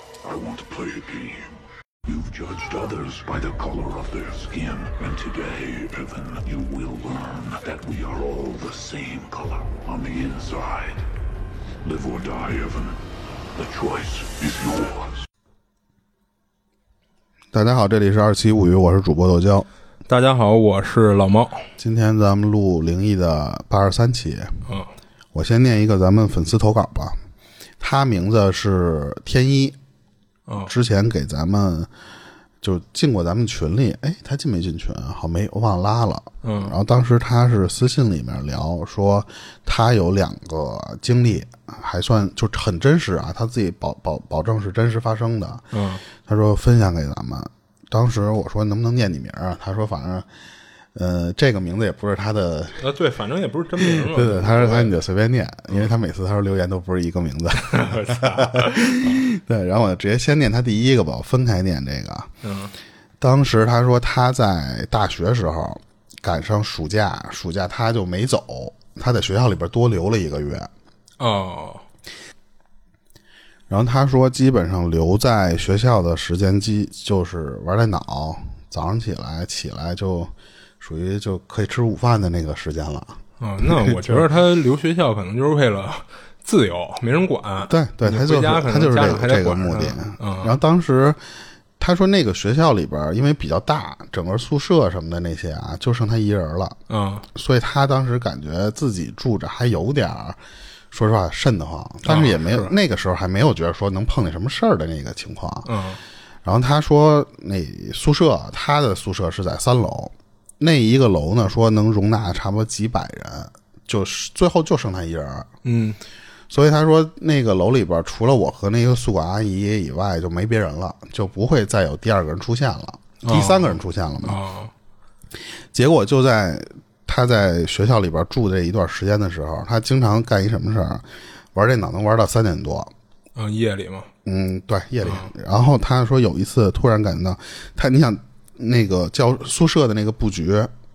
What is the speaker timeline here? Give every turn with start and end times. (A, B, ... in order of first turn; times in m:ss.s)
0:00.2-0:01.5 A
0:02.0-0:11.0 A
0:11.8-0:13.0 A
0:13.5-0:15.1 A
0:17.5-0:19.7 B
0:20.1-0:21.6 C
0:21.8-0:24.6 B
0:24.6-0:24.9 C
0:25.3-0:27.2 B
0:27.8-0:29.8 B
0:30.7-0:31.9 B
0:32.6-0:45.6 B
0:36.4-0:36.7 C
0:45.7-0:46.0 C
0:46.2-0:50.3 B
0:50.9-0:52.8 B
0:52.8-0:54.9 C
0:53.8-1:02.3 B
0:57.6-0:59.2 C
1:02.4-1:02.7 C
1:03.2-1:10.7 B
1:11.2-1:11.8 C
1:13.7-1:24.2 B
1:23.4-1:30.5 C
1:27.7-1:31.2 B
1:31.8-1:36.8 B
1:36.9-1:37.2 C
1:37.3-1:40.4 B
1:40.9-1:45.7 B
1:42.0-1:42.7 C
1:45.6-1:46.0 C
1:46.4-1:55.5 B
1:55.6-1:56.0 C
1:56.5-2:04.4 B
2:03.2-2:04.7 C
2:05.7-2:12.9 B
2:13.4-2:14.1 C
2:14.2-2:20.7 B
2:15.0-2:15.3 C